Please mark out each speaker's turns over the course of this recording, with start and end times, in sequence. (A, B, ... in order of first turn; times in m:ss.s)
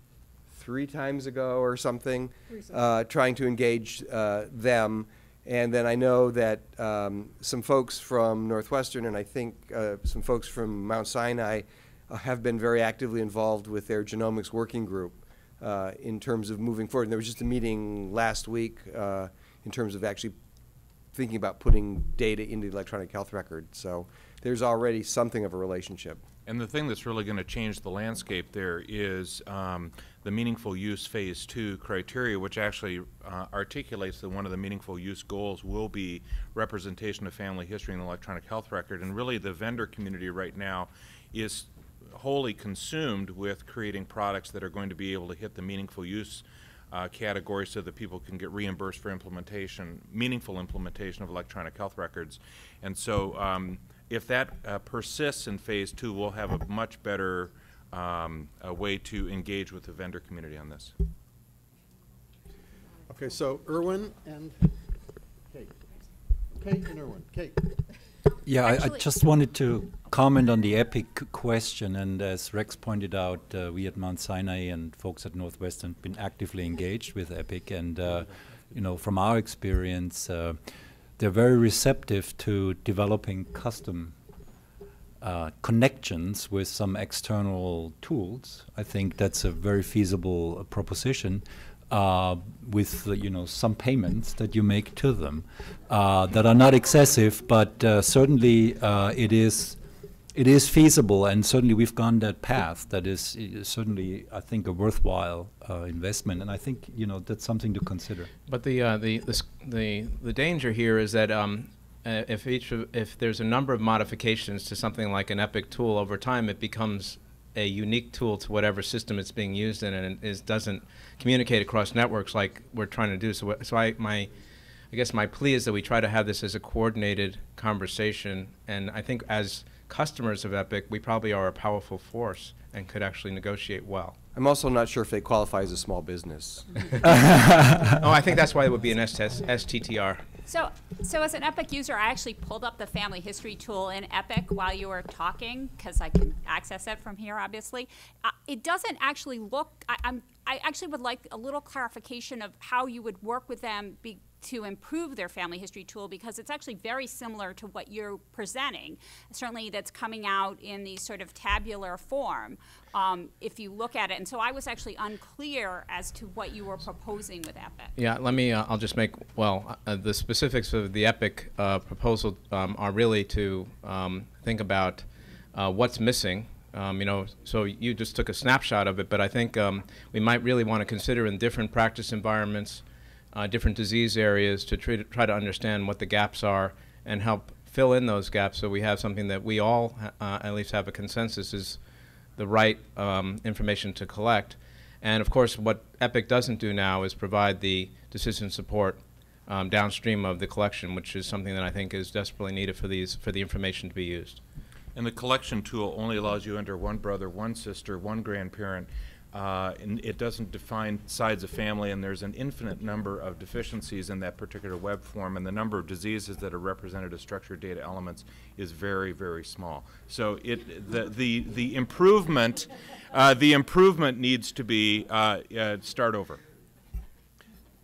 0:00.5-0:20.4 A
0:21.1-0:26.2 A
0:26.5-1:00.9 B
1:03.1-1:04.9 C
1:05.5-1:05.8 C
1:06.5-1:07.8 C
1:08.5-1:24.2 D
1:08.6-1:09.2 E
1:25.2-1:39.8 D
1:40.3-1:48.3 D
1:48.5-2:04.3 F
2:04.9-2:14.2 F
2:14.4-2:16.9 A
2:17.9-2:20.2 F
2:20.5-2:47.9 E
2:48.0-3:11.8 F
3:12.4-3:24.4 F
3:25.0-3:46.4 B